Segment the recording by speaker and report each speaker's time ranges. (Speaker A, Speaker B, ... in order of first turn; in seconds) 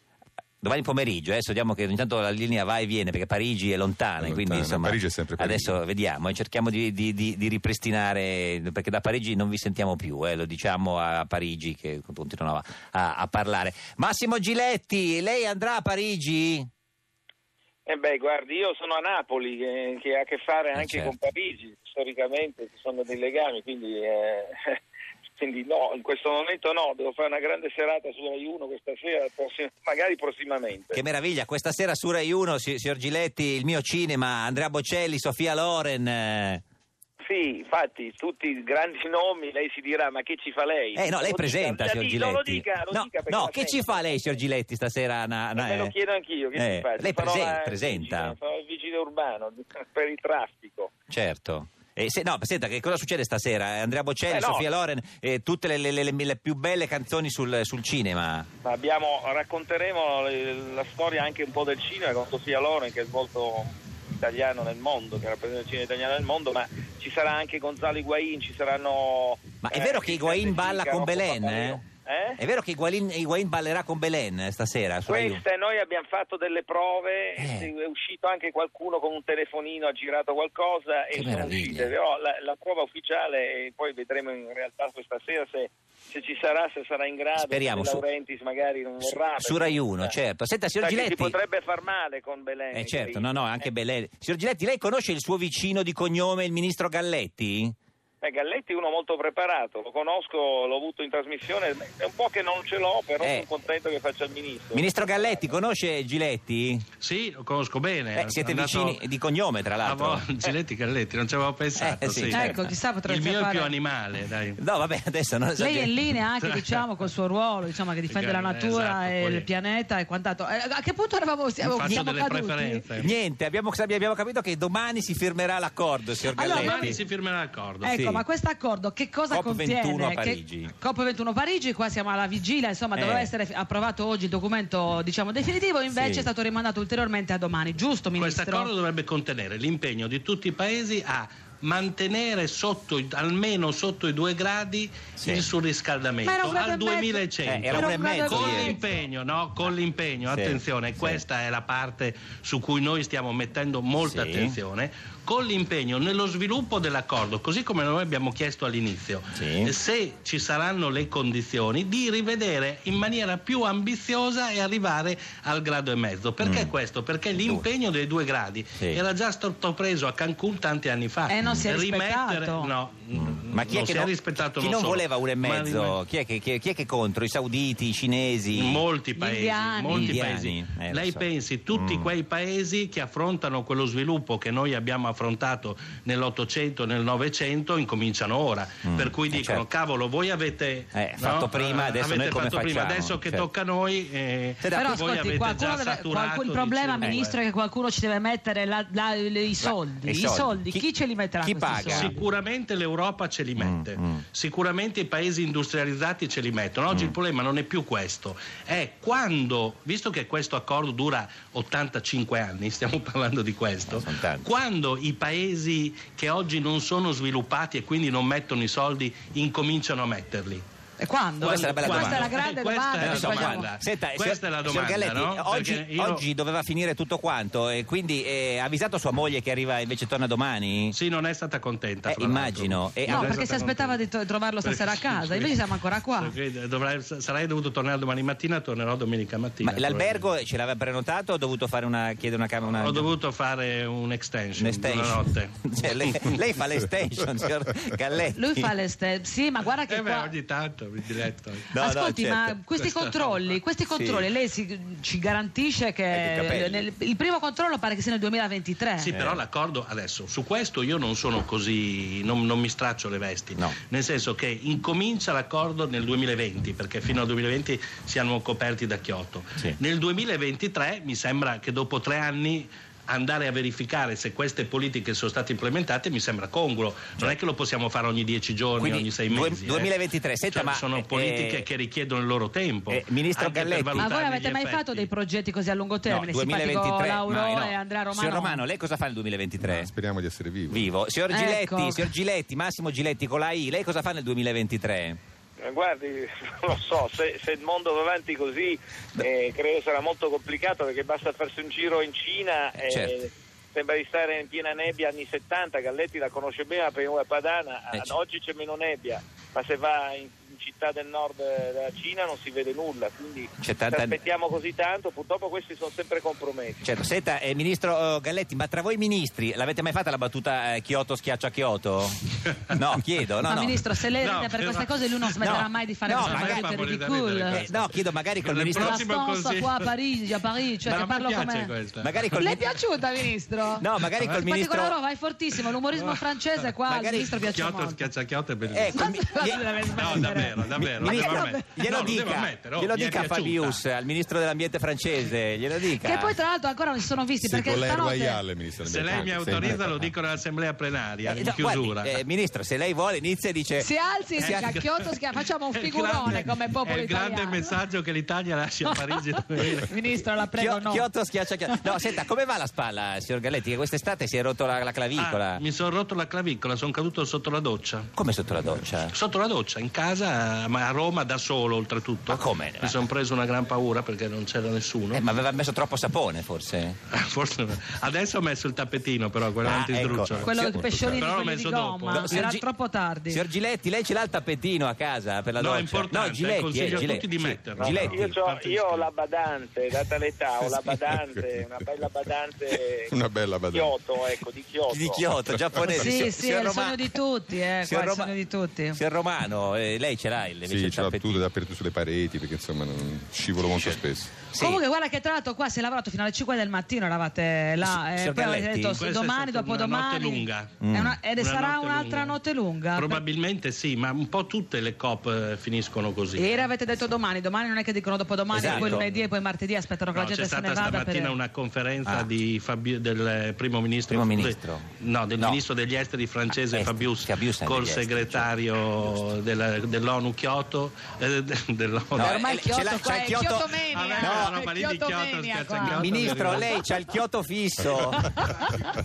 Speaker A: 0.6-16.7, 20.8-21.1, 30.9-36.6, 41.0-45.9, 46.5-48.3, 51.1-58.5, 69.6-71.8, 72.4-75.4, 77.4-77.7, 81.1-81.9, 87.4-88.0, 89.0-91.4, 92.7-97.8, 103.2-103.5, 104.7-106.9, 108.2-110.2, 111.8-112.6, 114.6-116.0, 123.0-127.0, 127.9-128.2, 129.3-130.7, 132.9-133.3, 135.9-136.3, 145.2-145.4, 147.4-148.8, 150.2-151.2, 154.0-154.6, 159.3-159.7, 166.4-166.7, 167.4-167.6, 173.1-178.8, 179.9-182.1, 188.8-189.6, 190.9-193.5, 194.6-195.0, 199.6-200.8, 201.4-202.1, 203.6-204.2, 213.9-214.5, 221.4-222.3, 223.0-230.9, 232.1-233.3, 239.6-243.1, 244.6-248.7, 251.7-252.6, 253.9-254.3, 256.1-256.9, 259.1-259.4, 278.8-281.6, 282.9-284.1, 286.1-289.9, 290.7-295.2, 302.8-303.2, 313.6-314.2, 316.8-322.1, 322.7-323.8, 325.4-326.7, 327.5-329.0, 332.0-332.6, 333.8-334.9, 336.9-337.3, 338.7-339.6, 340.8-346.4, 351.2-353.9, 354.4-354.7, 360.5-365.6, 368.1-369.1, 372.3-373.0, 375.1-377.0, 379.6-380.9, 382.1-382.7, 383.3-388.4, 394.9-397.1, 397.8-398.3, 398.9-401.4, 403.7-404.8, 407.8-409.0, 410.8-411.2, 418.5-419.1, 424.1-425.6, 426.7-428.5, 432.2-434.6, 435.8-438.3
Speaker B: 4.2-5.8, 289.6-290.9, 347.4-350.1, 380.5-381.3, 391.1-392.0, 393.1-394.0, 395.5-396.0, 400.7-404.4
Speaker C: 17.9-24.8, 25.4-31.0, 37.3-44.4, 45.5-50.9, 54.3-54.7, 58.6-72.4, 75.1-90.1, 90.8-93.3, 98.2-105.4, 295.6-316.8, 387.8-393.1, 393.7-395.3
Speaker D: 107.0-109.0, 109.8-112.5, 113.1-114.6, 116.4-116.8, 118.1-119.5, 121.6-123.1, 126.4-127.9, 138.2-176.0, 178.5-197.4, 201.9-220.6, 221.4-226.2, 230.9-234.0, 234.6-240.2, 242.7-246.3, 249.9-251.7, 252.8-253.6, 259.0-279.9, 280.5-285.1, 324.2-325.3, 326.1-329.9, 330.9-332.6, 334.1-334.4, 335.9-336.7, 337.4-339.0, 339.9-343.8, 348.8-352.2, 354.4-359.9, 365.2-368.1, 369.1-375.2, 377.1-380.5, 381.1-382.5, 385.6-389.1, 408.9-412.4, 412.9-416.6, 418.6-419.2, 420.1-432.4, 433.9-436.8
Speaker E: 112.3-113.7, 115.6-122.9, 126.3-127.0, 127.8-138.7, 146.2-148.8, 171.3-172.7, 179.2-180.2, 194.7-202.1, 221.0-223.7, 233.1-236.3, 248.3-250.3, 251.8-259.1, 284.0-288.6, 291.3-292.1, 323.4-327.7, 328.7-331.8, 332.4-338.1, 338.9-341.7, 346.0-348.4, 353.8-357.8, 359.6-361.1, 380.4-383.4, 395.9-399.0, 404.6-413.2, 416.4-421.4, 432.2-436.5, 438.1-438.7